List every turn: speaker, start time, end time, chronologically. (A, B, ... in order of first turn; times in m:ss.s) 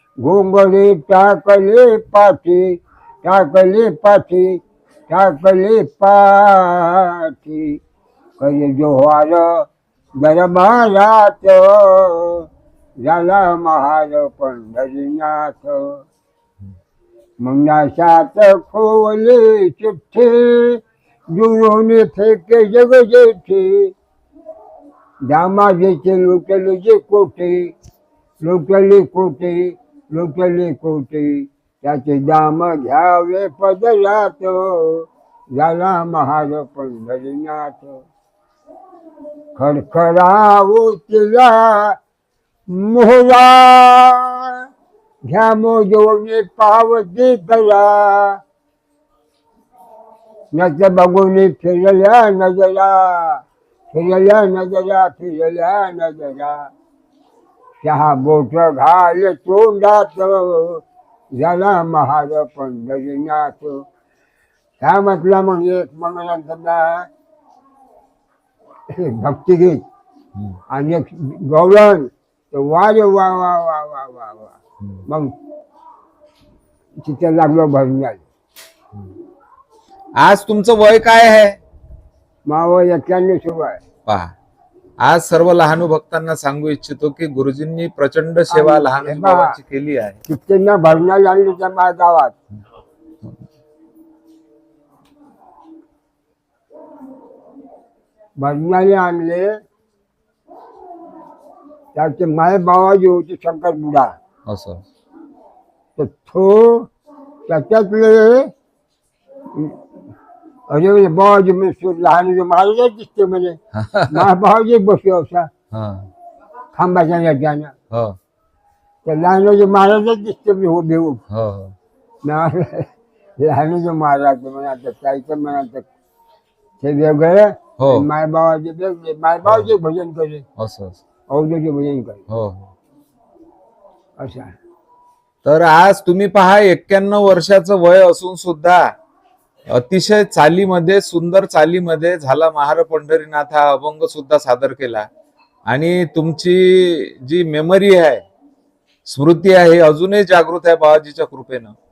0:00.2-0:07.8 A
0:08.4-0:12.5 A
0:13.0-0:16.0 A
0:17.4-0:23.9 A
0:25.2-0:27.7 A
0:28.4-0:38.0 A
0:39.6-0:42.0 A
0:42.7-0:44.7 A
0:45.2-0:48.4 A
0:50.5-0:56.7 A
0:57.8-1:00.8 A
1:01.3-1:03.8 A
1:04.8-1:07.1 A
1:08.9-1:09.8 A
1:10.7-1:14.6 A
1:17.0-1:18.2 A
1:20.2-1:21.6 B
1:22.5-1:23.8 A
1:24.1-1:24.3 B
1:25.0-1:30.2 B
1:28.5-1:29.6 A
1:30.3-1:32.3 A
1:38.4-1:39.5 A
1:41.9-1:44.1 A
1:44.5-1:44.8 B
1:46.0-1:46.9 A
1:47.5-1:48.5 A
1:49.5-1:49.8 A
1:50.7-1:53.6 A
1:53.7-1:54.3 B
1:54.1-1:55.5 A
1:55.7-1:56.1 B
1:56.7-1:57.7 A
1:57.9-1:58.2 B
1:59.0-2:01.2 A
2:01.3-2:01.8 B
2:02.2-2:02.9 A
2:03.4-2:05.9 A
2:06.8-2:10.4 A
2:07.8-2:08.1 B
2:09.4-2:09.7 B
2:10.6-2:11.0 B
2:11.3-2:12.2 A
2:12.3-2:12.7 B
2:14.2-2:14.5 A
2:15.4-2:18.9 B
2:19.7-2:25.1 B
2:25.7-2:28.2 B
2:29.1-2:31.8 B